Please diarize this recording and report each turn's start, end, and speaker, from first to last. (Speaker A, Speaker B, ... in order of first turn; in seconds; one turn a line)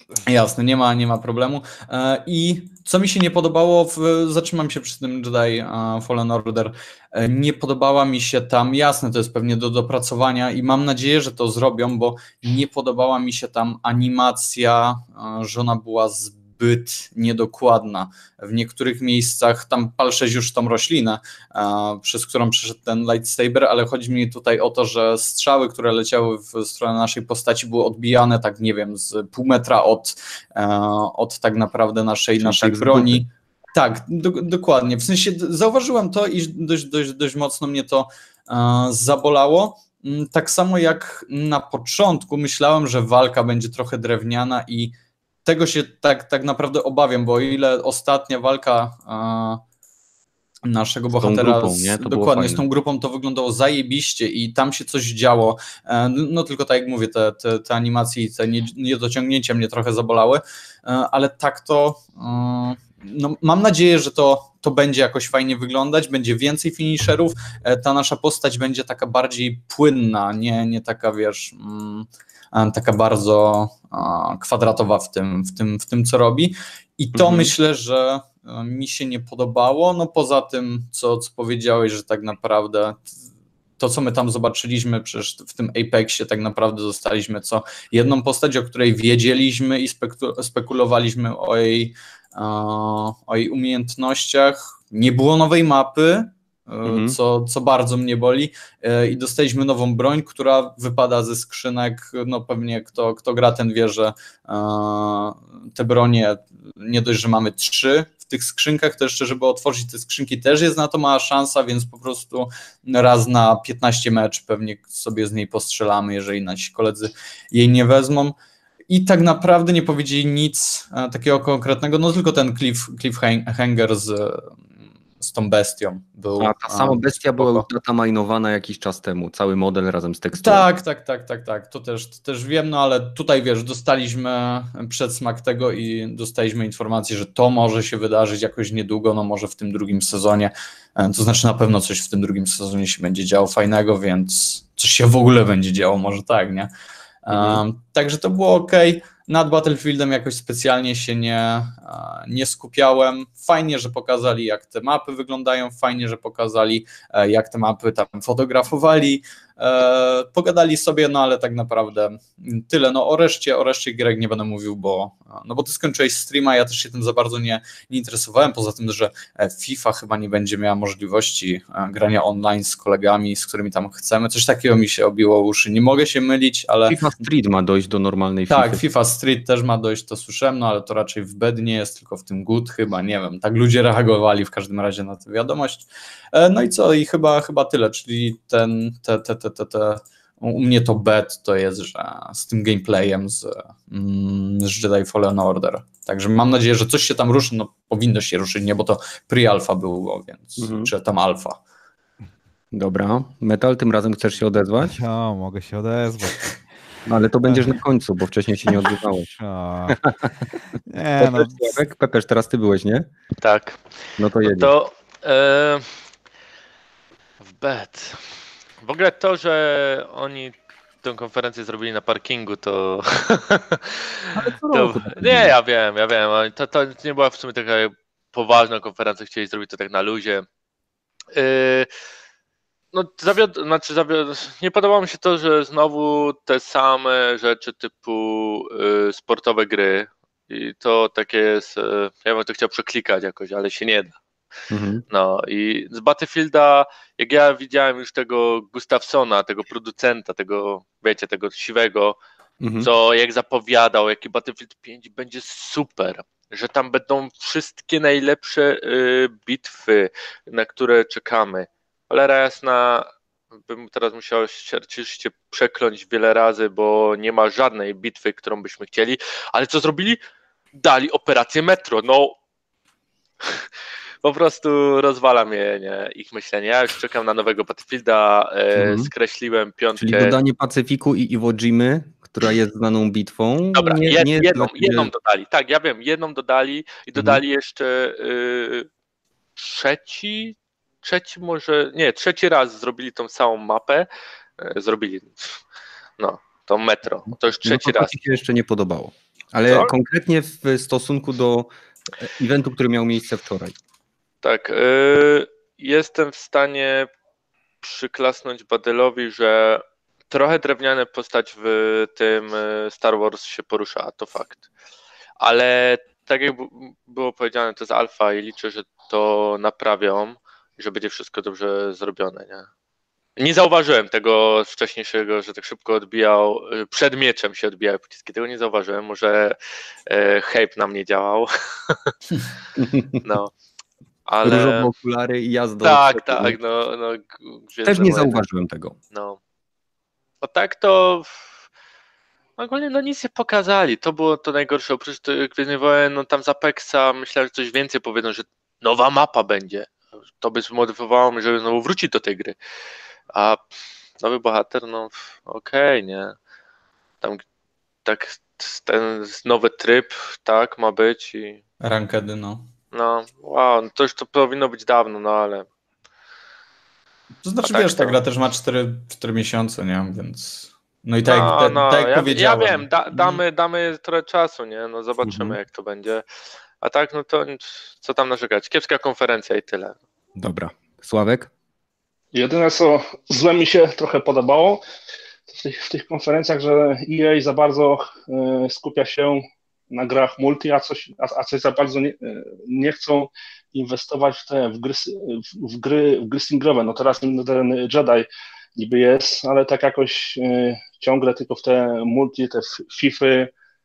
Speaker A: 0.2-49.6
Speaker B: 32.4-33.2
Speaker A: 50.6-83.0
Speaker B: 51.1-52.6
Speaker B: 77.2-77.5
Speaker A: 83.8-118.3
Speaker B: 96.8-97.2
Speaker A: 118.9-124.5
Speaker A: 125.2-127.7
Speaker B: 126.4-130.7
Speaker A: 130.4-146.7
Speaker A: 147.2-177.0
Speaker B: 147.3-147.6
Speaker B: 176.9-178.8
Speaker A: 178.5-201.6
Speaker B: 200.6-200.9
Speaker B: 202.7-205.0
Speaker C: 204.8-206.5
Speaker B: 207.1-209.3
Speaker C: 207.5-207.8
Speaker C: 209.1-210.0
Speaker B: 209.9-210.3
Speaker C: 210.9-211.8
Speaker B: 211.2-213.1
Speaker D: 213.4-213.8
Speaker B: 214.2-214.7
Speaker D: 214.5-215.9
Speaker D: 217.5-218.2
Speaker D: 218.8-224.1
Speaker B: 224.3-225.5
Speaker D: 224.7-230.4
Speaker D: 231.3-231.9
Speaker D: 232.9-244.1
Speaker B: 244.7-245.0
Speaker D: 245.1-252.2
Speaker B: 252.6-252.9
Speaker D: 252.8-263.1
Speaker D: 263.6-270.2
Speaker D: 270.8-272.4
Speaker D: 274.2-280.4
Speaker B: 278.8-279.1
Speaker B: 280.0-285.1
Speaker D: 283.7-288.9
Speaker B: 287.1-287.4
Speaker D: 289.6-294.1
Speaker D: 294.6-295.6
Speaker D: 296.2-298.1
Speaker B: 297.6-301.7
Speaker B: 302.2-303.7
Speaker D: 304.4-307.1
Speaker D: 307.8-314.6
Speaker D: 315.4-322.7
Speaker D: 323.4-332.1
Speaker B: 332.8-333.2
Speaker D: 333.2-333.5
Speaker D: 334.3-334.9
Speaker B: 334.4-336.6
Speaker D: 335.8-338.4
Speaker B: 337.8-339.0
Speaker D: 339.1-339.4
Speaker D: 340.4-341.4
Speaker D: 342.6-352.6
Speaker D: 353.3-353.6
Speaker D: 354.2-356.4
Speaker D: 358.0-361.6
Speaker A: 361.8-362.6
Speaker D: 362.9-365.7
Speaker A: 367.4-373.4
Speaker D: 367.6-368.2
Speaker D: 371.2-376.2
Speaker B: 375.2-375.6
Speaker D: 376.8-379.9
Speaker B: 380.4-381.5
Speaker E: 382.3-384.8
Speaker E: 385.5-403.5